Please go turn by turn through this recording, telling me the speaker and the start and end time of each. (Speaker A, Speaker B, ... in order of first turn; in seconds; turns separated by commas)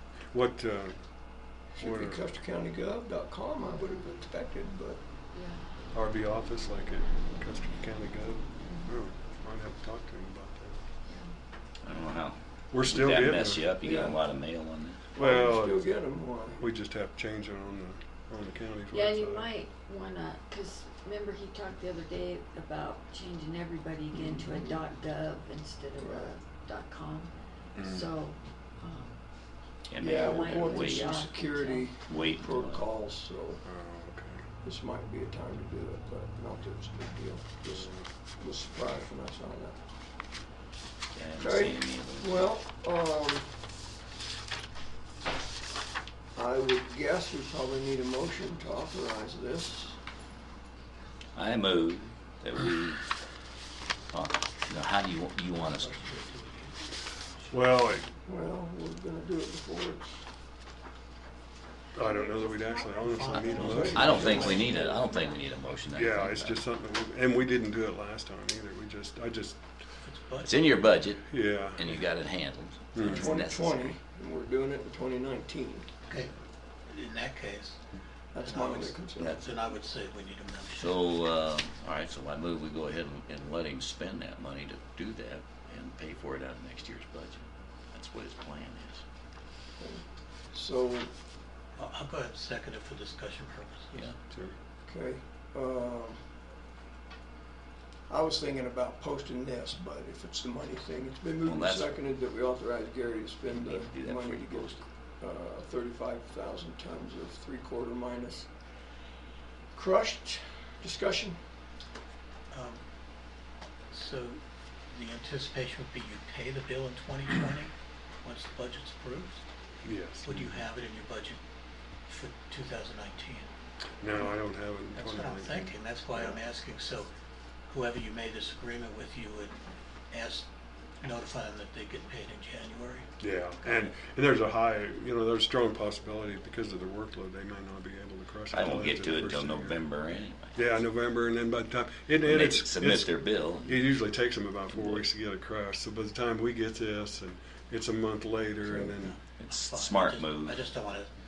Speaker A: 0.2-2.3, Speaker B: 1.7-5.0, Speaker C: 5.3-5.7, Speaker A: 5.9-10.9, Speaker C: 8.6-8.9, Speaker C: 11.1-11.3, Speaker D: 11.8-15.0, Speaker A: 12.7-13.7, Speaker B: 13.8-14.2, Speaker B: 15.1-16.6, Speaker A: 15.2-15.9, Speaker A: 16.6-19.5, Speaker C: 18.9-29.3, Speaker B: 24.1-24.8, Speaker B: 26.0-26.3, Speaker A: 27.7-28.1, Speaker D: 29.9-31.3, Speaker B: 30.0-33.6, Speaker C: 30.0-31.9, Speaker D: 32.0-32.9, Speaker A: 33.6-34.5, Speaker B: 34.6-39.8, Speaker A: 37.6-38.1, Speaker D: 41.1-42.5, Speaker B: 41.4-43.5, Speaker B: 46.3-50.0, Speaker D: 51.3-53.0, Speaker D: 54.1-56.1, Speaker E: 55.8-56.8, Speaker A: 57.5-58.1, Speaker B: 58.2-60.2, Speaker A: 61.9-64.7, Speaker E: 62.0-65.2, Speaker B: 63.5-65.0, Speaker D: 63.7-66.6, Speaker A: 65.9-69.6, Speaker E: 70.0-70.6, Speaker D: 70.4-74.0, Speaker A: 71.3-72.0, Speaker A: 72.9-73.4, Speaker B: 73.0-75.9, Speaker E: 76.1-76.3, Speaker E: 76.8-77.8, Speaker B: 78.3-79.4, Speaker E: 78.3-81.0, Speaker D: 79.2-79.6, Speaker D: 80.7-89.0, Speaker B: 89.8-91.1, Speaker E: 91.8-94.1, Speaker B: 94.8-96.2, Speaker B: 98.1-108.5, Speaker D: 101.4-102.0, Speaker D: 103.5-104.8, Speaker B: 109.7-111.4, Speaker E: 112.5-112.8, Speaker E: 113.9-119.5, Speaker A: 119.8-120.6, Speaker E: 120.2-121.4, Speaker E: 122.1-123.5, Speaker A: 124.0-126.4, Speaker E: 124.9-127.1, Speaker E: 127.7-129.6, Speaker E: 130.1-130.5, Speaker E: 131.0-133.1, Speaker A: 133.2-139.8, Speaker E: 133.6-133.9, Speaker D: 138.5-140.6, Speaker A: 140.5-149.2, Speaker D: 142.2-143.8, Speaker D: 144.7-145.0, Speaker B: 148.6-148.9, Speaker E: 149.0-151.1, Speaker D: 149.4-150.6